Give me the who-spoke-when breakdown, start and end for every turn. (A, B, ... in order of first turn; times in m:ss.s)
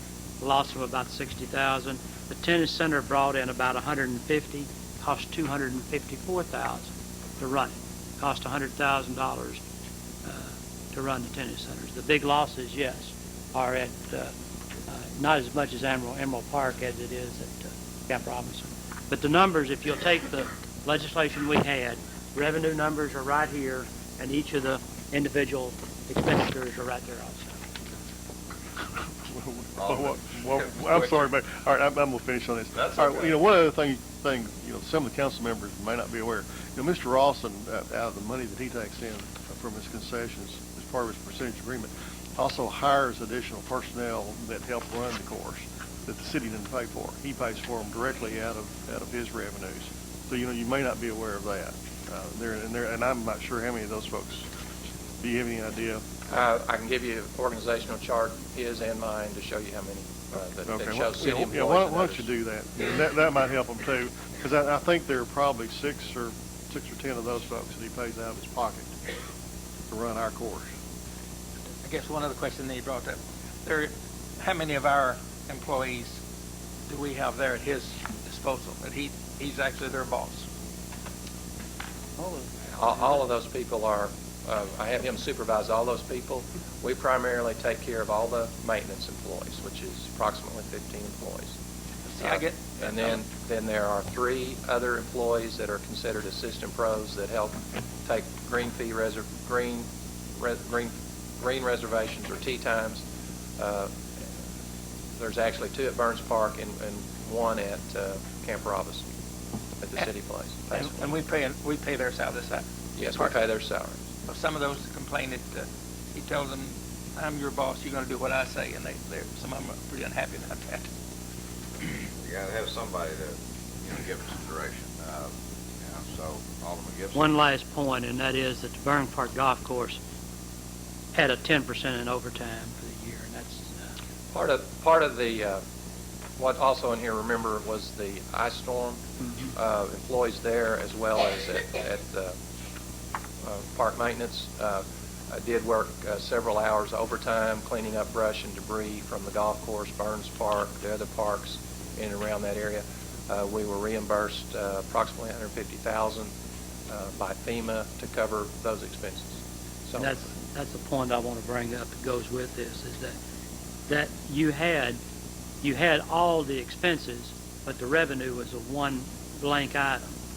0:00.4-0:09.6 A
0:10.2-0:14.3 A
0:14.9-0:27.6 A
0:29.2-0:54.5 B
0:29.8-0:30.2 C
0:32.9-0:33.3 C
0:55.2-0:56.0 B
0:56.3-1:02.3 D
1:00.6-1:09.0 B
1:09.9-1:10.7 B
1:11.8-1:16.2 E
1:16.9-1:20.4 E
1:22.2-1:22.5 A
1:22.7-1:31.5 D
1:32.1-1:32.9 E
1:32.2-1:43.0 D
1:43.6-1:43.9 D
1:45.2-1:49.0 D
1:49.8-1:51.1 D
1:50.7-1:53.4 E
1:53.0-1:54.0 D
1:54.3-2:00.9 E
2:02.2-2:07.3 C
2:07.1-2:10.0 A
2:11.1-2:13.9 A
2:14.3-2:15.6 D
2:16.4-2:22.4 D
2:19.2-2:19.5 A
2:23.4-2:36.3 D
2:36.9-2:40.2 D
2:40.0-2:43.2 A
2:43.9-2:45.0 A
2:45.6-2:50.2 A